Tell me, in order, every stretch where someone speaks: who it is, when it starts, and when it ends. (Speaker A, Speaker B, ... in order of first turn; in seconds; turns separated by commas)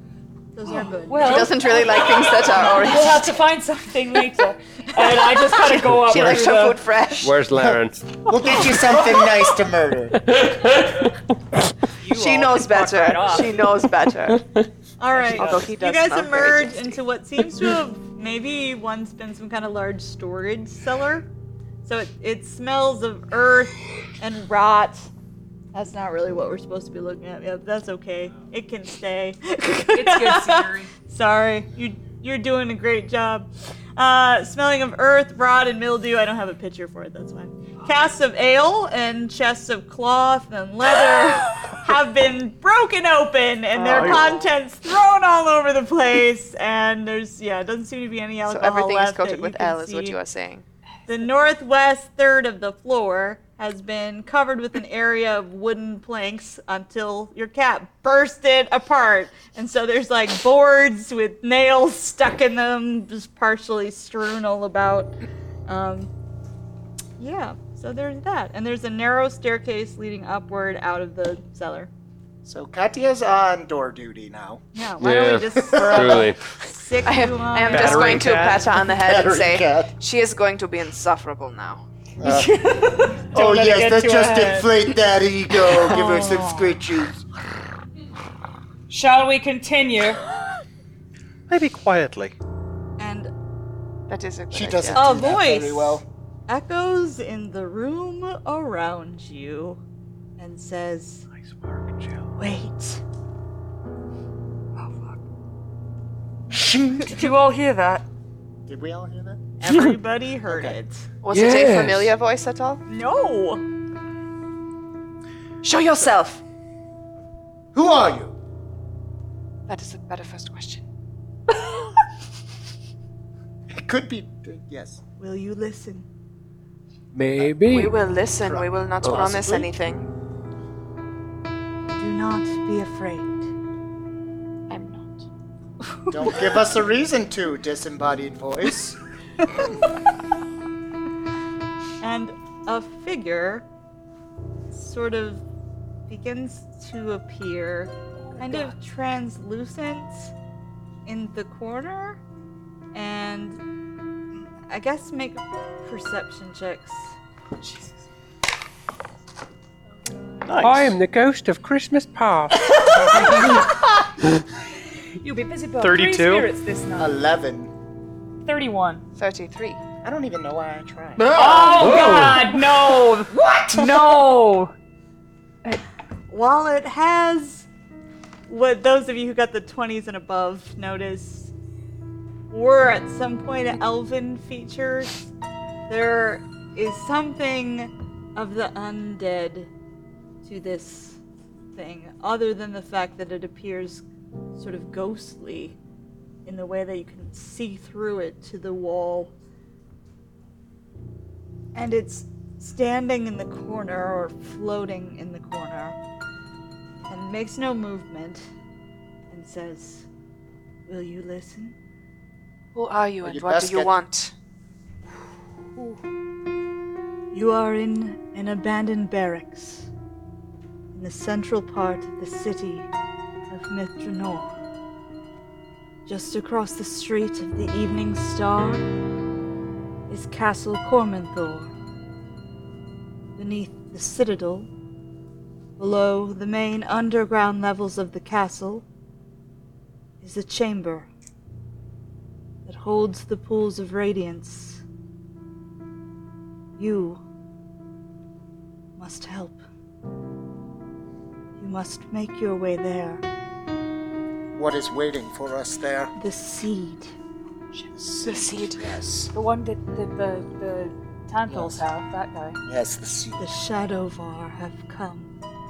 Speaker A: 0.5-1.6, Speaker B: 0.7-6.8, Speaker C: 1.2-3.4, Speaker C: 5.6-7.4, Speaker D: 7.2-8.0, Speaker E: 7.5-10.3, Speaker B: 8.6-9.1, Speaker D: 10.3-11.1, Speaker B: 12.0-13.7, Speaker C: 12.1-14.4, Speaker A: 15.0-21.3, Speaker B: 15.1-15.6, Speaker C: 15.3-17.0, Speaker A: 21.8-25.1, Speaker A: 25.7-50.2, Speaker B: 29.9-30.9, Speaker F: 43.7-44.2, Speaker C: 48.5-50.6, Speaker A: 51.1-66.1, Speaker A: 67.2-71.9, Speaker E: 72.4-74.6, Speaker A: 74.7-78.2, Speaker D: 75.0-76.4, Speaker E: 75.6-76.2, Speaker C: 77.0-81.8, Speaker F: 77.7-78.7, Speaker E: 78.8-79.9, Speaker E: 82.2-82.6, Speaker B: 82.2-84.8, Speaker E: 83.3-87.2, Speaker B: 85.6-86.8, Speaker B: 88.9-90.2, Speaker F: 91.5-92.3, Speaker A: 93.0-93.3, Speaker C: 94.1-95.3, Speaker E: 94.5-96.0, Speaker A: 94.9-99.8, Speaker A: 100.4-101.2, Speaker F: 101.4-102.3, Speaker A: 102.4-103.0, Speaker B: 104.8-105.2, Speaker E: 106.5-107.2, Speaker B: 107.0-108.0, Speaker E: 108.7-109.4, Speaker A: 109.6-111.1, Speaker D: 109.7-110.0, Speaker E: 110.5-110.8, Speaker C: 111.2-112.8, Speaker D: 111.3-112.1, Speaker A: 112.9-113.6, Speaker C: 115.6-116.4, Speaker E: 117.7-118.3, Speaker C: 119.7-120.8, Speaker E: 123.7-125.0, Speaker A: 125.2-126.0, Speaker D: 127.1-128.0, Speaker C: 127.7-130.1, Speaker E: 128.4-129.7, Speaker D: 129.0-129.6, Speaker A: 131.9-133.5, Speaker C: 134.7-135.2, Speaker E: 136.1-139.0, Speaker A: 142.0-143.7, Speaker A: 144.7-145.4, Speaker A: 146.1-150.3, Speaker B: 148.2-148.7, Speaker A: 151.1-152.2, Speaker A: 152.9-153.6, Speaker A: 154.7-157.1, Speaker B: 157.6-157.9, Speaker F: 160.4-161.0, Speaker D: 160.6-162.6, Speaker B: 163.1-163.5, Speaker B: 165.2-167.1, Speaker F: 165.8-166.5, Speaker E: 167.0-167.7, Speaker B: 168.4-169.0, Speaker C: 169.1-169.8, Speaker E: 170.0-172.2, Speaker B: 171.3-174.7, Speaker D: 171.6-172.5, Speaker E: 173.2-174.1, Speaker A: 176.3-177.7, Speaker A: 178.5-181.5, Speaker A: 182.5-185.3, Speaker A: 185.9-189.7, Speaker A: 190.4-191.2, Speaker A: 191.7-194.0, Speaker A: 194.6-195.8, Speaker A: 196.4-199.3, Speaker A: 201.7-206.0, Speaker A: 207.1-208.4, Speaker A: 209.3-210.1, Speaker A: 210.9-211.8, Speaker C: 212.7-214.3, Speaker E: 213.2-213.9, Speaker A: 217.3-219.9, Speaker A: 220.9-222.9, Speaker A: 223.5-224.5, Speaker A: 226.1-228.8, Speaker A: 230.1-231.7, Speaker A: 233.3-234.7, Speaker A: 235.8-238.8, Speaker A: 240.2-241.1, Speaker A: 242.7-244.8, Speaker A: 246.8-247.2, Speaker A: 248.9-249.6, Speaker A: 251.6-253.2, Speaker E: 254.5-256.1, Speaker A: 256.1-257.1, Speaker E: 257.9-259.3, Speaker C: 258.2-258.9, Speaker B: 259.3-262.6, Speaker E: 261.5-261.9, Speaker E: 262.6-263.5, Speaker A: 263.4-265.3